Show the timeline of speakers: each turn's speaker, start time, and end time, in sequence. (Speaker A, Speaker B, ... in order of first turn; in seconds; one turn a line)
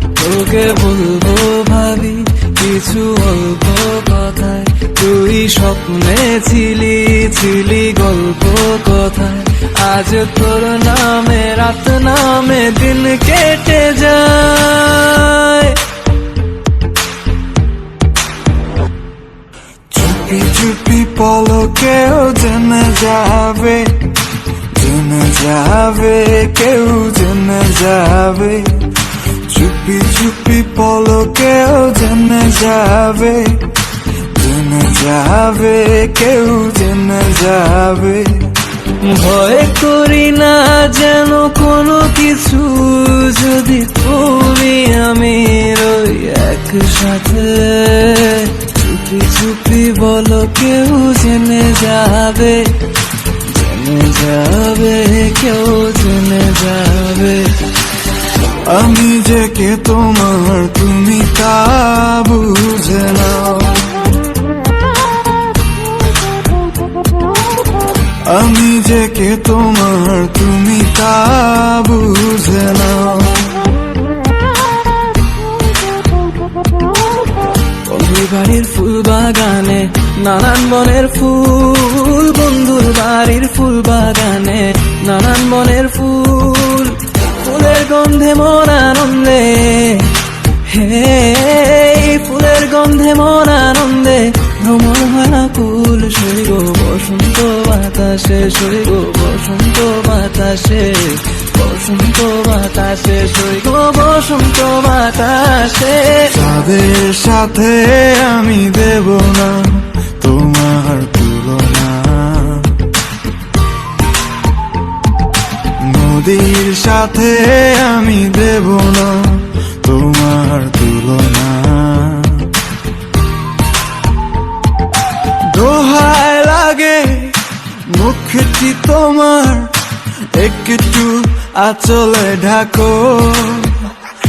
Speaker A: 0.1-15.8
Speaker B: 19.9-38.5
Speaker A: 39.0-57.7
Speaker B: 58.6-64.0
Speaker B: 68.2-73.7
Speaker A: 76.6-106.3
Speaker B: 106.3-112.9
Speaker B: 115.8-122.6
Speaker B: 125.3-133.9